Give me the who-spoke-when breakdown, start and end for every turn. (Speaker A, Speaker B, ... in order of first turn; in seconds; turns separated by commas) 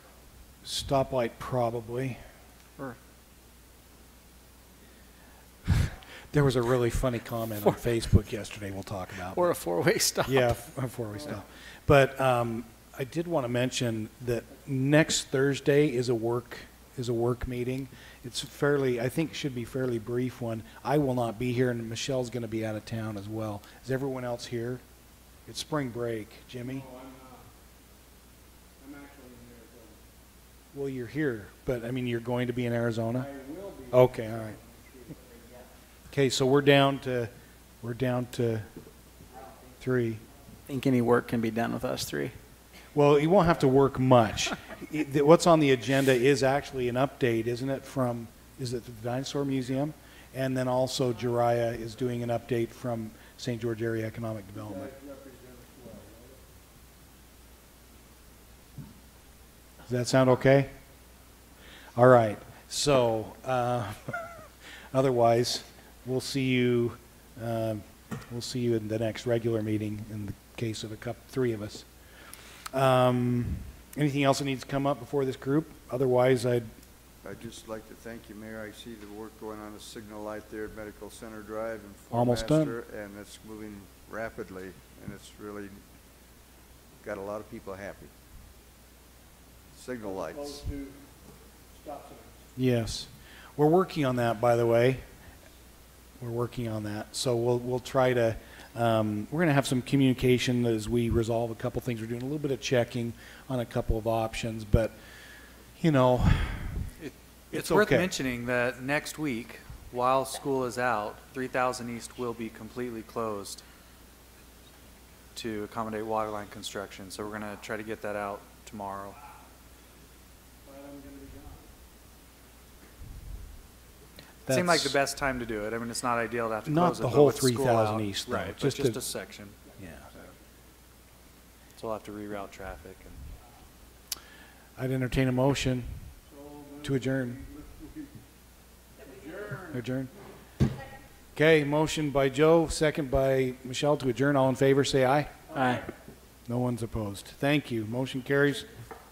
Speaker A: 0.6-2.2, Speaker A: 6.3-9.5, Speaker B: 9.2-10.6, Speaker A: 10.2-24.8, Speaker A: 25.5-26.9, Speaker C: 26.6-27.5, Speaker C: 28.8-30.0, Speaker A: 30.7-33.3, Speaker C: 33.1-35.7, Speaker A: 33.9-34.6, Speaker A: 36.1-37.3, Speaker A: 37.8-38.7, Speaker A: 39.8-40.2, Speaker B: 40.7-42.4, Speaker A: 42.9-54.9, Speaker C: 54.5-56.4, Speaker A: 59.9-60.7, Speaker A: 62.0-64.2, Speaker A: 64.9-71.9, Speaker A: 72.7-76.7, Speaker D: 77.2-85.8, Speaker A: 82.1-82.8, Speaker D: 87.0-88.1, Speaker D: 89.7-90.7, Speaker C: 90.0-91.1, Speaker C: 91.7-92.4, Speaker A: 92.6-95.0, Speaker A: 96.2-105.0, Speaker A: 105.8-106.9, Speaker E: 107.0-113.6, Speaker A: 107.5-108.1, Speaker E: 115.3-119.2, Speaker C: 120.6-121.7, Speaker A: 124.5-125.0, Speaker E: 124.5-129.6, Speaker A: 126.7-129.0, Speaker C: 129.6-130.5, Speaker A: 129.8-130.1, Speaker E: 131.8-133.2, Speaker A: 134.8-136.0, Speaker C: 136.2-138.2, Speaker A: 136.8-137.4, Speaker C: 139.0-139.8, Speaker A: 139.7-140.1, Speaker A: 141.3-145.5, Speaker B: 145.5-145.9, Speaker A: 146.5-148.7